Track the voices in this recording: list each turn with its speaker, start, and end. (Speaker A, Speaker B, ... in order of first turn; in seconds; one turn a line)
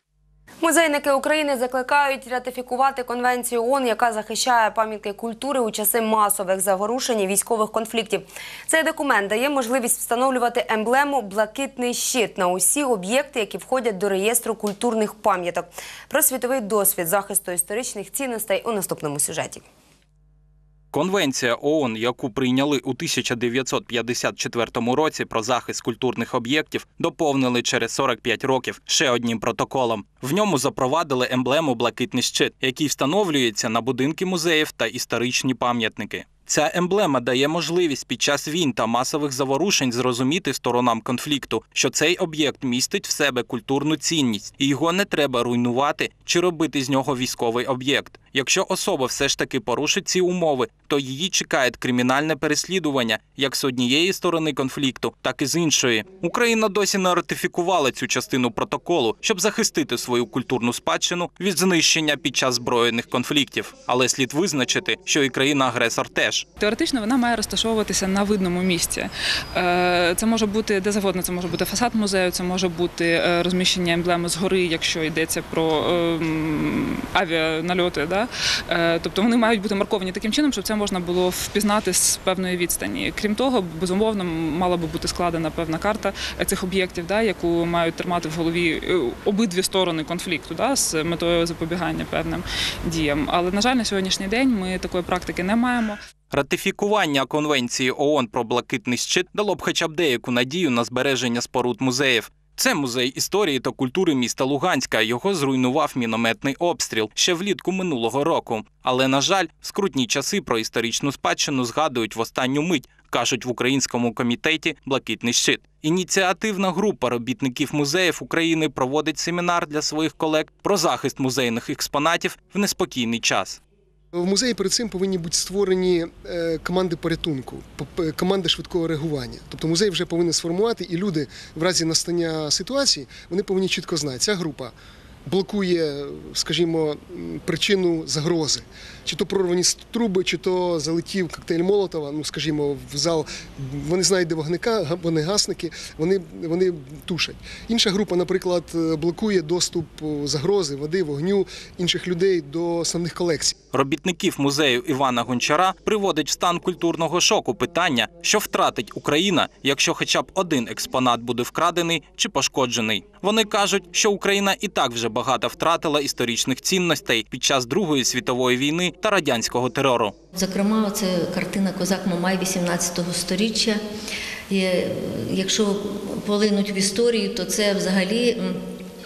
Speaker A: 0.6-19.6
Speaker B: 20.9-66.5
Speaker C: 66.6-96.0
Speaker B: 96.3-123.6
Speaker D: 124.1-153.6
Speaker B: 153.7-170.2
Speaker E: 170.3-173.8
Speaker E: 174.5-178.6